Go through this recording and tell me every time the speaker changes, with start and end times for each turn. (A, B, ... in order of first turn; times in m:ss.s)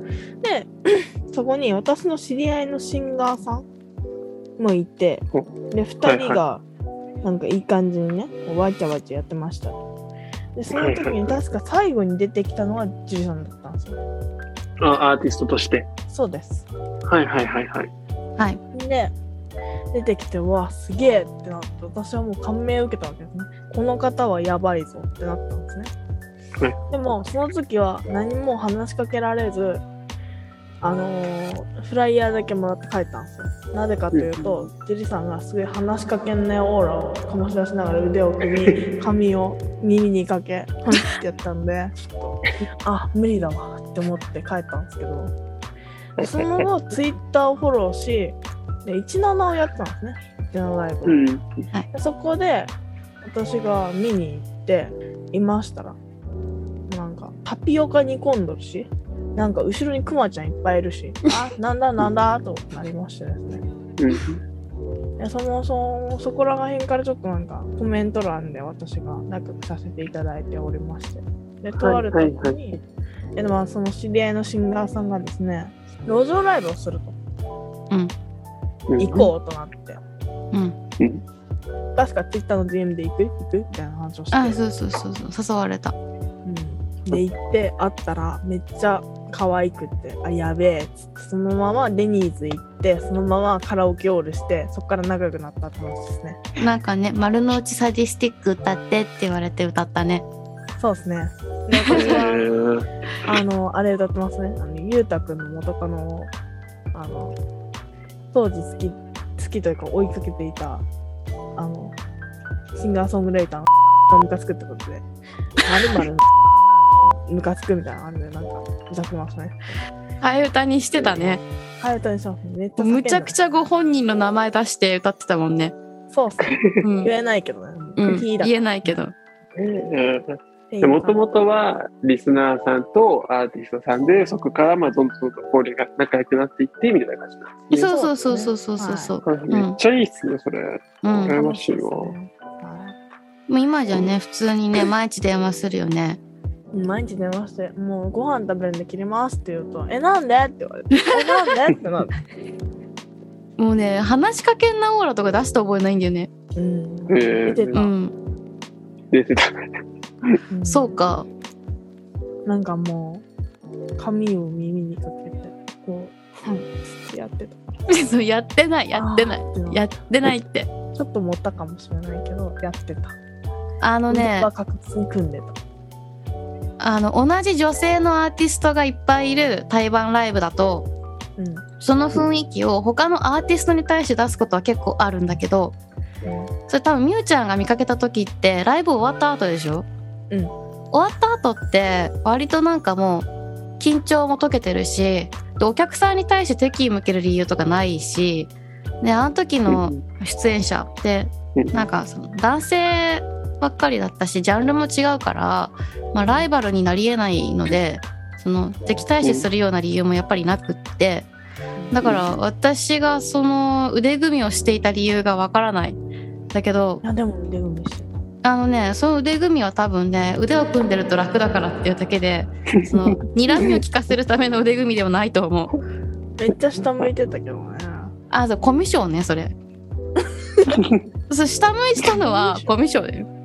0:00.4-0:03.7 A
0:04.6-0:06.6 A
0:06.0-0:06.4 B
0:07.2-0:09.8 A
0:10.6-0:14.0 A
0:10.7-0:11.4 B
0:14.8-0:15.9 B
0:16.1-0:16.7 A
0:17.1-0:17.9 B
0:18.7-0:19.1 A
0:19.9-0:25.9 A
0:26.9-0:29.8 A
0:30.8-0:45.3 A
0:34.1-0:34.6 B
0:46.2-0:46.7 B
0:46.2-0:51.2 A
0:51.0-0:51.6 B
0:51.9-0:56.0 A
0:56.9-1:03.7 A
1:04.0-1:04.4 B
1:05.2-1:12.8 A
1:11.8-1:12.8 B
1:13.4-1:17.2 A
1:18.9-1:19.3 B
1:19.0-1:20.0 A
1:22.0-1:24.6 A
1:24.3-1:26.0 C
1:26.4-1:36.4 A
1:36.6-1:40.3 C
1:40.8-1:42.5 A
1:41.8-1:42.2 C
1:41.9-1:42.9 B
1:43.2-1:46.3 A
1:46.9-1:47.4 A
1:48.3-1:50.9 A
1:51.6-1:52.0 A
1:52.8-1:55.0 A
1:55.6-1:56.2 A
1:57.3-1:59.8 A
2:00.2-2:01.4 C
2:01.8-2:03.4 A
2:02.8-2:05.8 C
2:06.1-2:08.9 A
2:06.4-2:06.7 B
2:06.8-2:07.1 C
2:08.0-2:09.2 C
2:09.6-2:17.9 B
2:10.7-2:11.3 A
2:17.7-2:19.8 C
2:17.8-2:19.2 A
2:19.2-2:22.2 B
2:21.0-2:21.4 C
2:21.2-2:23.0 A
2:23.5-2:26.2 C
2:26.7-2:32.2 A
2:33.6-2:36.3 C
2:36.6-2:37.9 A
2:37.1-2:37.8 B
2:37.8-2:38.1 C
2:39.1-2:39.7 B
2:40.5-2:41.0 A
2:40.6-2:41.3 C
2:42.5-2:43.2 A
2:44.0-2:47.8 A
2:47.9-2:50.7 C
2:49.0-2:50.0 A
2:50.9-2:53.2 A
2:53.8-2:54.5 C
2:54.1-2:55.6 A
2:56.8-3:00.9 C
3:01.4-3:01.6 A
3:01.8-3:05.8 C
3:06.2-3:06.5 A
3:06.7-3:09.9 C
3:10.9-3:13.3 C
3:13.8-3:31.3 C
3:19.7-3:20.0 B
3:26.2-3:26.5 A
3:29.2-3:29.5 B
3:31.8-3:32.0 A
3:31.9-3:36.0 C
3:32.0-3:32.4 B
3:36.5-3:37.0 C
3:37.0-3:38.2 A
3:38.4-3:45.8 C
3:46.4-3:48.1 A
3:48.3-3:49.6 C
3:51.3-3:53.3 C
3:52.0-3:52.7 A